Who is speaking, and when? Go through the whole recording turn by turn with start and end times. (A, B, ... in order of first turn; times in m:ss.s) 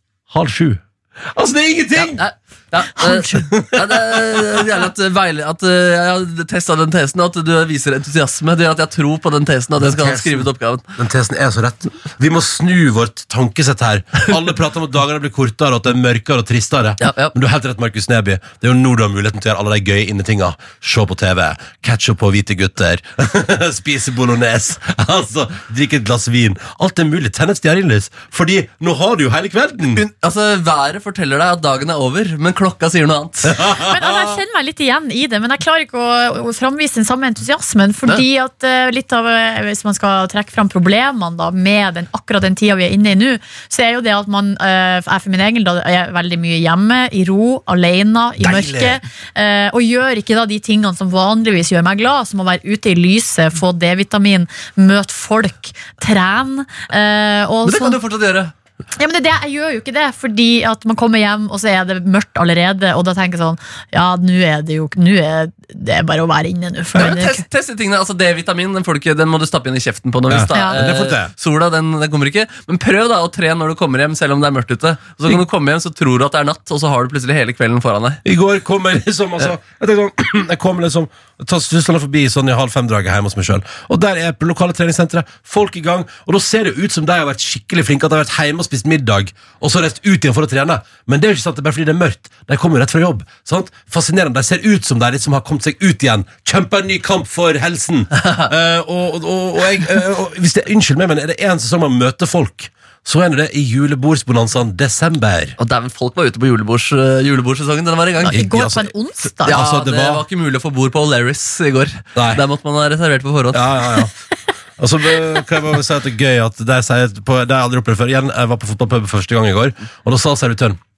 0:00.3-0:02.2 A
0:02.0-0:10.8 B
0:03.1-0:03.5 C
0:03.2-0:04.4 A
0:09.8-0:30.0 A
0:17.0-0:17.3 B
0:30.0-0:33.6 B
0:33.5-0:34.4 A
0:33.8-0:58.0 C
0:48.4-0:49.0 A
0:57.6-0:58.5 B
0:59.0-1:07.4 C
1:07.0-1:18.2 B
1:10.3-1:11.3 A
1:18.2-1:45.6 A
1:38.2-1:38.5 B
1:45.6-1:48.5 B
1:48.2-1:49.6 C
1:48.3-1:48.9 A
1:49.4-1:50.2 A
1:49.4-1:53.7 B
1:52.2-1:52.4 A
1:53.5-1:54.1 A
1:54.8-2:00.8 A